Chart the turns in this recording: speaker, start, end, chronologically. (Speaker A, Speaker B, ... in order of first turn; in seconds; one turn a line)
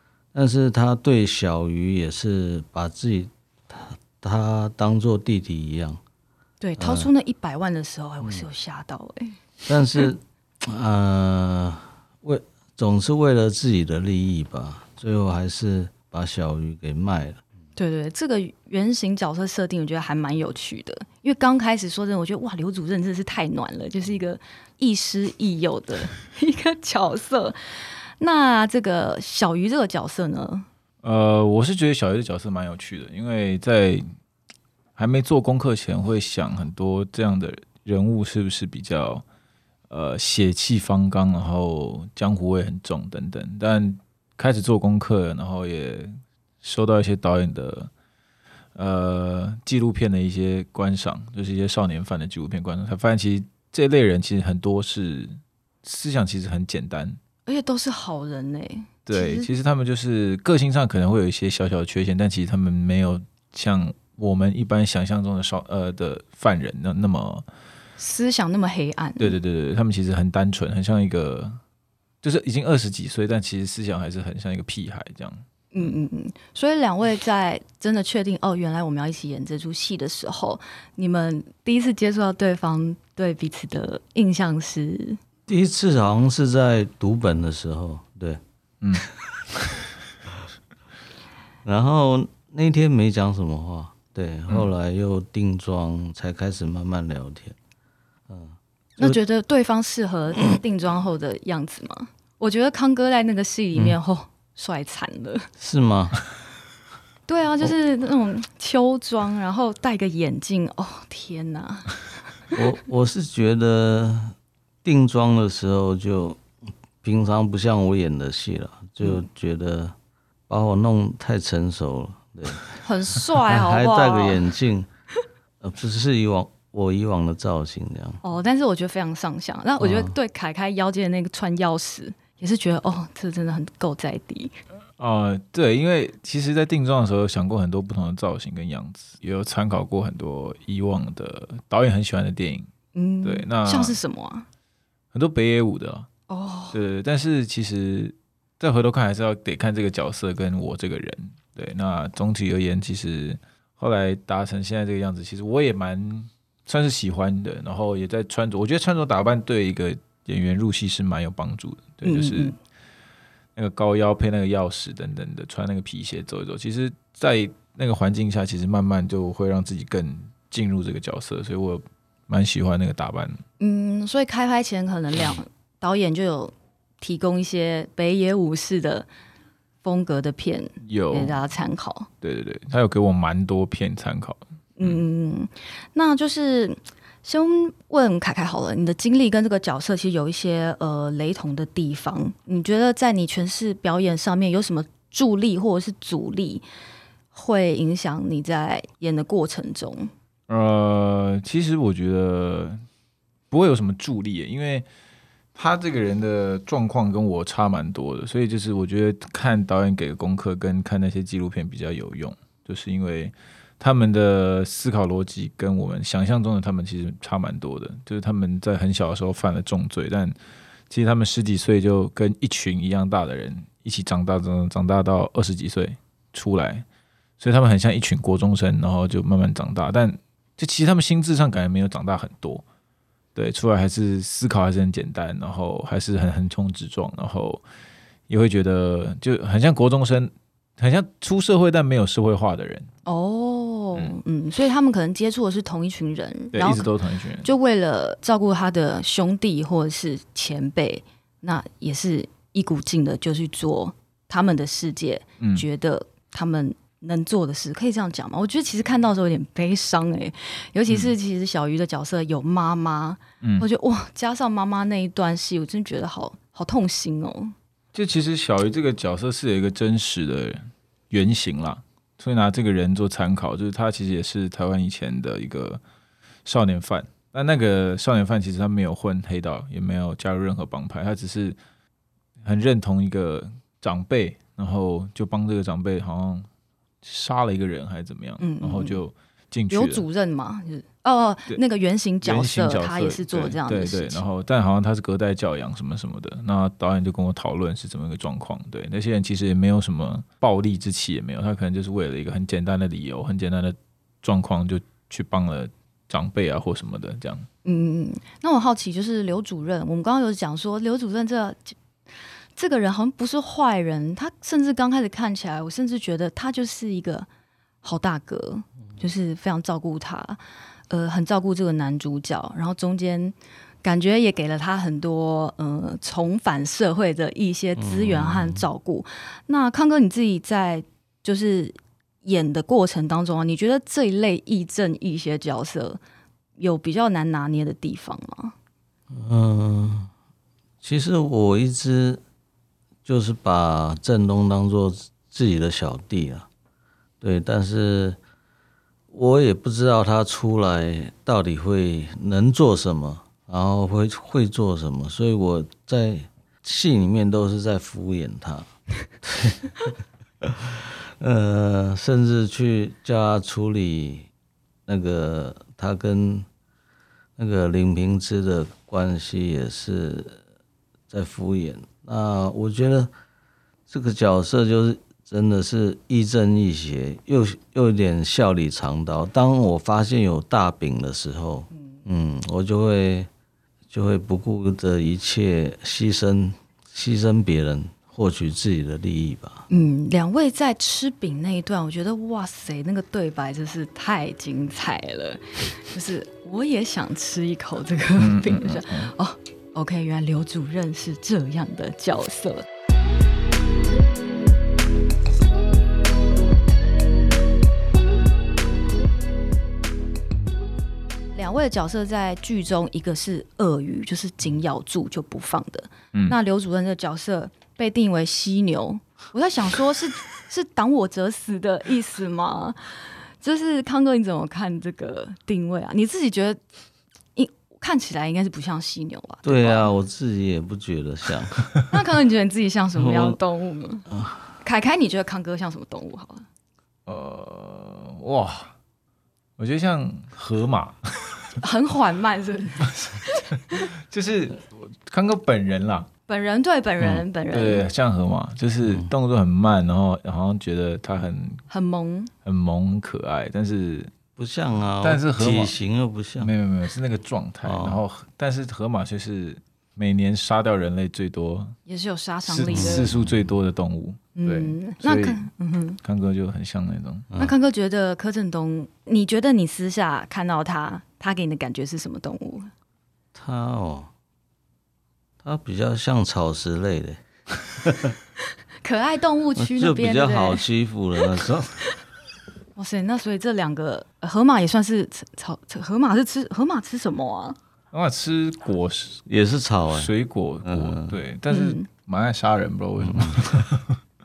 Speaker A: 0.3-6.0
Speaker B: 6.6-9.4
Speaker A: 6.8-7.1
Speaker A: 9.7-17.4
Speaker B: 17.8-30.6
Speaker C: 31.0-34.1
Speaker C: 35.0-39.2
Speaker C: 39.9-47.9
Speaker C: 48.7-57.2
Speaker B: 57.5-59.5
Speaker C: 59.0-67.4
Speaker B: 68.0-69.4
Speaker C: 69.2-71.6
Speaker C: 72.2-75.9
Speaker B: 75.7-85.2
Speaker A: 85.5-88.4
Speaker A: 91.6-97.6
Speaker A: 98.3-98.6
Speaker B: 99.0-105.5
Speaker A: 105.6-106.2
Speaker B: 107.3-112.0
Speaker A: 112.5-116.4
Speaker A: 117.0-119.9
Speaker A: 120.5-122.8
Speaker B: 122.8-124.4
Speaker A: 123.3-124.9
Speaker A: 125.6-128.2
Speaker B: 128.2-134.5
Speaker A: 129.8-130.1
Speaker C: 135.0-142.7
Speaker B: 142.9-144.4
Speaker C: 143.2-144.0
Speaker C: 145.1-146.1
Speaker B: 146.3-146.8
Speaker C: 146.7-162.5
Speaker B: 162.0-162.6
Speaker C: 163.6-173.4
Speaker B: 173.6-179.1
Speaker B: 179.8-182.1
Speaker C: 180.8-181.4
Speaker C: 182.2-185.0
Speaker B: 184.8-196.6
Speaker B: 197.3-200.1
Speaker C: 200.5-202.8
Speaker C: 203.5-204.9
Speaker C: 205.5-220.3
Speaker C: 220.9-226.8
Speaker C: 227.4-232.6
Speaker C: 233.3-237.6
Speaker C: 238.3-242.9
Speaker B: 243.1-246.9
Speaker C: 246.5-247.5
Speaker B: 247.4-267.5
Speaker C: 255.4-255.6
Speaker C: 260.9-261.1
Speaker C: 263.4-263.7
Speaker C: 267.9-275.8
Speaker C: 276.4-281.6
Speaker C: 282.4-286.5
Speaker C: 287.0-290.0
Speaker B: 288.4-289.0
Speaker B: 289.7-294.2
Speaker C: 292.2-307.5
Speaker B: 307.6-311.8
Speaker B: 312.6-317.3
Speaker B: 317.8-336.0
Speaker A: 327.8-328.6
Speaker B: 336.6-338.5
Speaker A: 339.1-340.1
Speaker A: 340.8-342.2
Speaker A: 343.0-346.5
Speaker A: 347.2-348.2
Speaker A: 349.1-358.7
Speaker A: 359.2-359.9
Speaker A: 360.4-364.3
Speaker A: 364.9-366.5
Speaker A: 367.4-370.4
Speaker A: 371.1-373.1
Speaker A: 373.9-383.3
Speaker A: 383.9-389.7
Speaker B: 389.7-402.6
Speaker C: 398.2-399.1
Speaker B: 411.3-426.6
Speaker B: 427.4-429.9
Speaker A: 429.4-431.7
Speaker B: 431.9-434.1
Speaker A: 433.0-433.4
Speaker A: 434.1-434.4
Speaker B: 434.6-436.4
Speaker C: 437.1-438.7
Speaker C: 439.6-441.3
Speaker B: 441.6-443.5
Speaker C: 442.9-446.1
Speaker B: 446.3-447.8
Speaker C: 447.5-451.6
Speaker A: 448.8-449.1
Speaker B: 451.7-452.3
Speaker C: 452.4-454.1
Speaker A: 454.4-456.5
Speaker C: 455.0-455.7
Speaker C: 456.4-461.8
Speaker A: 457.6-458.0
Speaker B: 461.9-463.1
Speaker C: 462.5-465.5
Speaker A: 462.7-463.5
Speaker B: 464.4-466.0
Speaker C: 466.0-467.3
Speaker A: 467.3-467.5
Speaker B: 467.4-472.7
Speaker A: 473.3-474.1
Speaker A: 475.4-478.1
Speaker B: 478.8-480.6
Speaker A: 479.6-481.8
Speaker B: 482.8-487.6
Speaker C: 487.9-489.2
Speaker A: 489.3-490.1
Speaker C: 489.9-494.0
Speaker A: 490.6-491.2
Speaker B: 491.5-491.9
Speaker A: 493.0-493.4